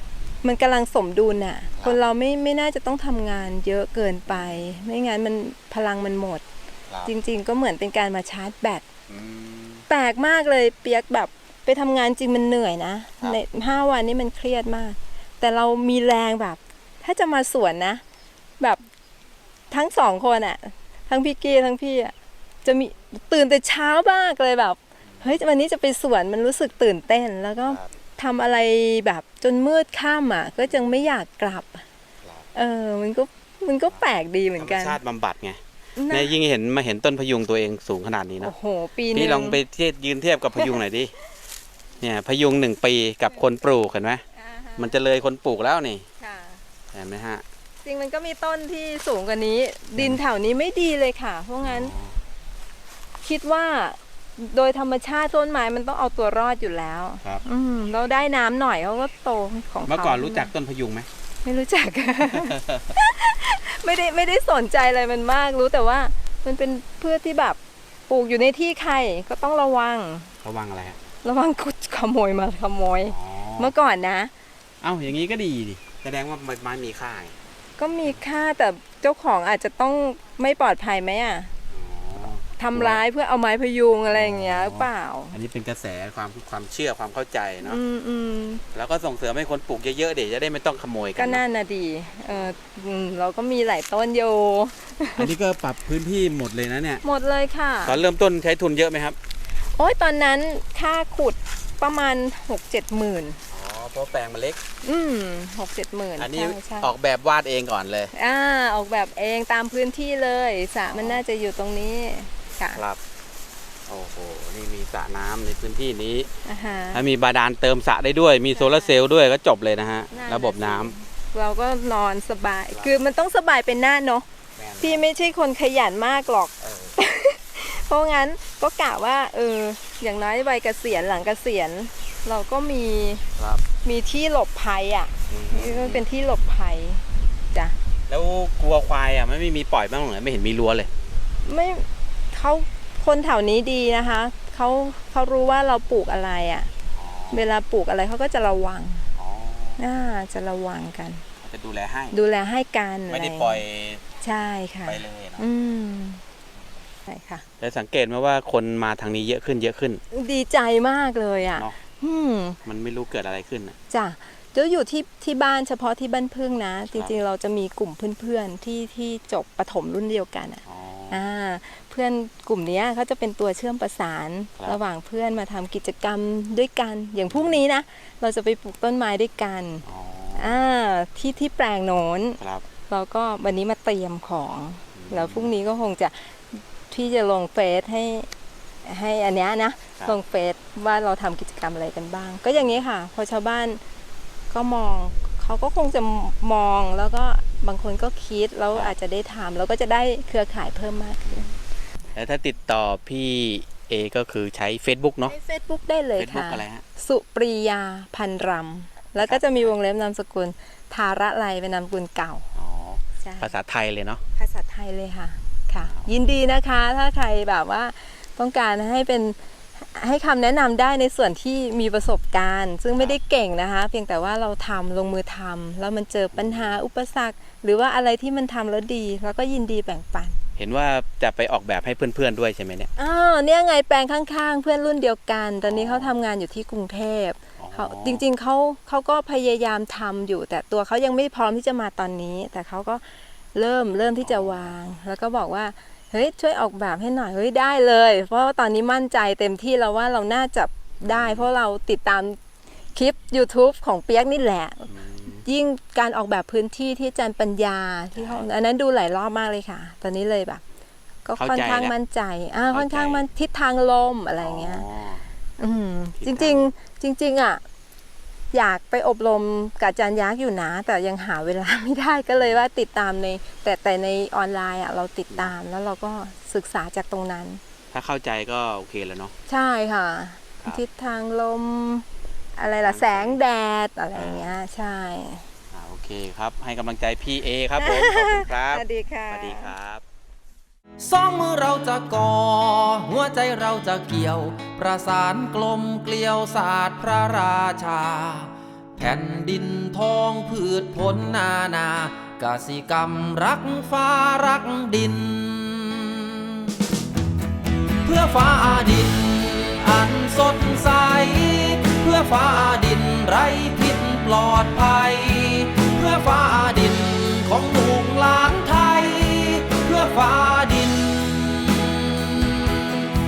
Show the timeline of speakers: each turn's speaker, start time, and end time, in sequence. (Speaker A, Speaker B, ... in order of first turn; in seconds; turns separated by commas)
Speaker A: 0.4-6.4, Speaker B: 1.7-2.0, Speaker B: 4.3-4.7, Speaker A: 7.0-8.8, Speaker B: 9.1-9.8, Speaker A: 9.9-18.0, Speaker A: 19.7-22.1, Speaker A: 22.6-31.9, Speaker B: 25.0-25.3, Speaker A: 32.5-35.0, Speaker B: 34.6-38.5, Speaker A: 36.0-36.4, Speaker A: 38.4-39.6, Speaker B: 39.1-41.1, Speaker A: 40.6-40.8, Speaker B: 42.0-44.2, Speaker A: 44.3-45.0, Speaker B: 44.8-46.1, Speaker A: 46.2-46.6, Speaker B: 46.9-47.4, Speaker A: 47.8-51.9, Speaker B: 51.6-52.1, Speaker A: 53.2-60.5, Speaker B: 59.9-61.1, Speaker A: 61.5-67.6, Speaker B: 62.2-62.9, Speaker A: 68.1-70.3, Speaker B: 70.4-71.0, Speaker A: 71.2-74.3, Speaker B: 73.1-73.7, Speaker B: 74.8-77.3, Speaker A: 77.8-81.5, Speaker B: 81.7-83.0, Speaker A: 82.6-85.4, Speaker B: 84.1-87.8, Speaker A: 87.6-88.6, Speaker B: 88.7-91.4, Speaker A: 91.2-95.3, Speaker B: 95.2-97.0, Speaker A: 97.0-98.0, Speaker B: 97.8-99.2, Speaker A: 99.8-103.4, Speaker B: 103.5-104.6, Speaker A: 104.8-106.9, Speaker B: 106.2-108.1, Speaker A: 108.1-112.8, Speaker B: 110.9-111.2, Speaker B: 112.7-113.0, Speaker B: 113.9-116.3, Speaker A: 116.5-117.0, Speaker B: 116.9-120.9, Speaker A: 118.5-119.0, Speaker A: 120.1-124.3, Speaker B: 124.6-125.0, Speaker A: 124.8-133.2, Speaker B: 126.6-127.0, Speaker B: 133.4-133.6, Speaker A: 133.8-137.8, Speaker B: 135.3-136.0, Speaker B: 138.1-140.9, Speaker A: 141.4-146.7, Speaker B: 146.9-147.5, Speaker A: 147.3-149.1, Speaker B: 149.2-149.8, Speaker A: 149.8-151.2, Speaker B: 151.4-152.2, Speaker A: 152.1-153.6, Speaker B: 153.1-154.0, Speaker A: 154.2-156.2, Speaker B: 154.8-155.4, Speaker A: 157.1-157.4, Speaker B: 157.6-160.0, Speaker A: 160.1-162.6, Speaker B: 162.7-163.8, Speaker A: 163.9-179.8, Speaker B: 170.7-171.2, Speaker B: 177.3-177.6, Speaker B: 179.8-180.6, Speaker A: 180.4-188.3, Speaker B: 182.4-182.7, Speaker B: 184.9-185.5, Speaker A: 188.8-193.8, Speaker A: 194.5-201.5, Speaker B: 202.2-205.3, Speaker A: 205.3-212.5, Speaker B: 206.2-206.8, Speaker B: 209.2-209.7, Speaker B: 212.6-214.2, Speaker A: 213.2-213.5, Speaker A: 214.4-230.4, Speaker B: 215.8-216.1, Speaker B: 226.3-226.8, Speaker B: 230.6-232.9, Speaker A: 233.0-243.0, Speaker B: 235.6-236.1, Speaker B: 237.6-238.2, Speaker A: 243.6-252.4, Speaker B: 244.2-244.7, Speaker B: 251.0-251.5, Speaker A: 252.9-260.6, Speaker B: 254.9-255.4, Speaker B: 258.2-258.5, Speaker A: 261.2-264.9, Speaker B: 261.4-261.9, Speaker B: 262.7-263.2, Speaker B: 264.4-265.2, Speaker A: 265.6-267.6, Speaker B: 266.2-266.7, Speaker A: 268.5-277.6, Speaker B: 277.9-279.4, Speaker A: 279.5-285.5, Speaker B: 282.8-283.4, Speaker B: 284.1-284.6, Speaker B: 285.7-290.0, Speaker A: 287.8-289.7, Speaker C: 291.0-306.7, Speaker C: 308.0-322.8